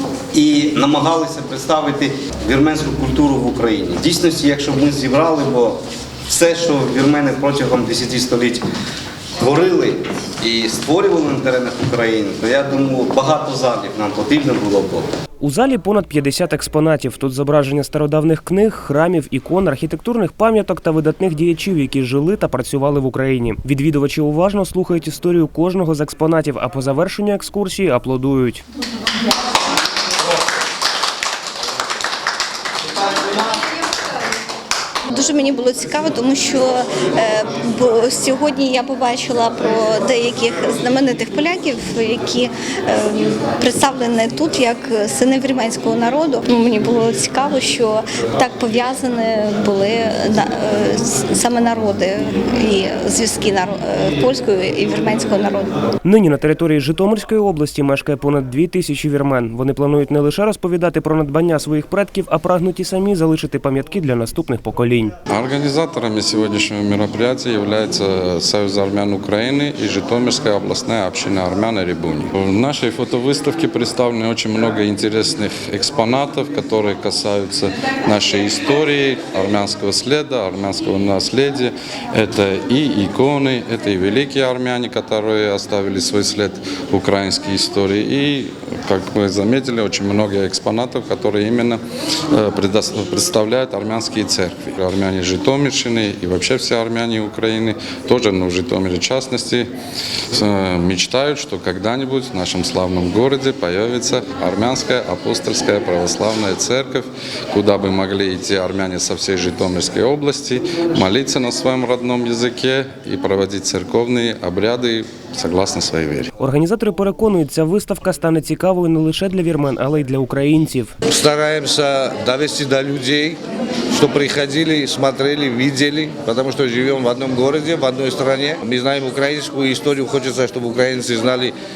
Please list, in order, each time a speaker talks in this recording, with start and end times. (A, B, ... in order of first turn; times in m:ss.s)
0:00.3-0:05.8 A
0:06.3-0:08.6 A
0:09.4-0:15.1 A
0:15.4-0:28.6 B
0:35.1-0:55.8 C
0:56.0-1:05.1 B
1:05.3-1:31.8 D
1:32.3-1:39.7 D
1:40.3-1:56.3 D
1:56.4-2:00.9 B
2:01.1-2:03.4 E
2:03.9-2:11.6 E